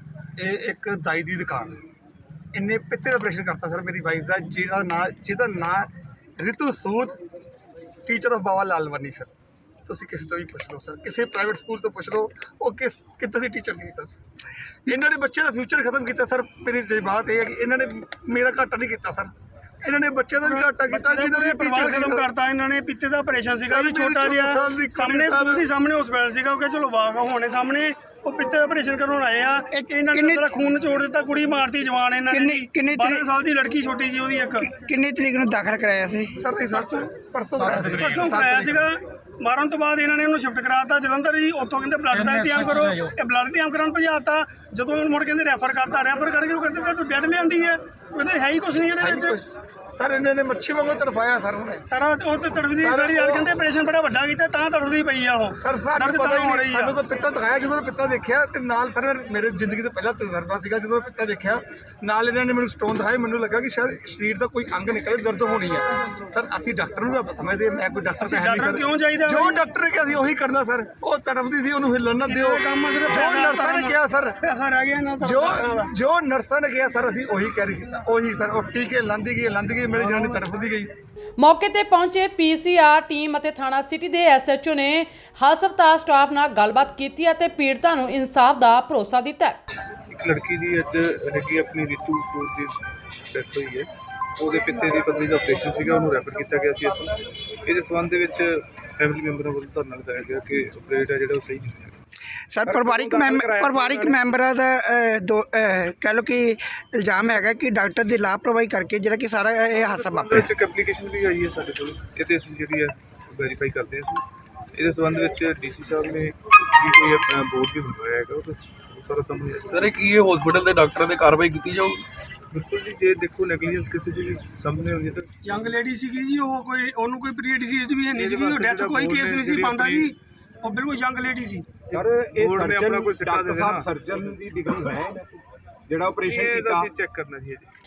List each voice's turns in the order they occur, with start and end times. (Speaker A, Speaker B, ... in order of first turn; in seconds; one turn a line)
Speaker A: 0.4-1.8
Speaker A: 2.5-7.2
Speaker A: 8.1-9.3
Speaker A: 9.9-14.1
Speaker A: 14.9-19.3
Speaker A: 19.8-22.3
Speaker B: 20.5-34.7
Speaker A: 23.7-25.7
Speaker C: 29.7-30.6
Speaker C: 32.3-33.3
Speaker C: 34.6-36.4
Speaker A: 36.4-38.8
Speaker B: 37.9-49.4
Speaker A: 49.0-51.9
Speaker B: 51.9-57.0
Speaker A: 52.8-53.5
Speaker A: 55.6-74.4
Speaker B: 68.2-69.6
Speaker B: 72.3-75.9
Speaker A: 75.2-80.9
Speaker D: 81.4-89.6
Speaker E: 90.1-92.8
Speaker E: 93.3-102.0
Speaker C: 102.5-110.5
Speaker E: 102.7-104.3
Speaker E: 109.8-119.9
Speaker F: 119.7-122.0
Speaker E: 122.5-125.3
Speaker B: 125.5-131.7
Speaker E: 128.1-130.1
Speaker E: 131.9-134.0
Speaker G: 131.9-136.9
Speaker E: 136.2-137.7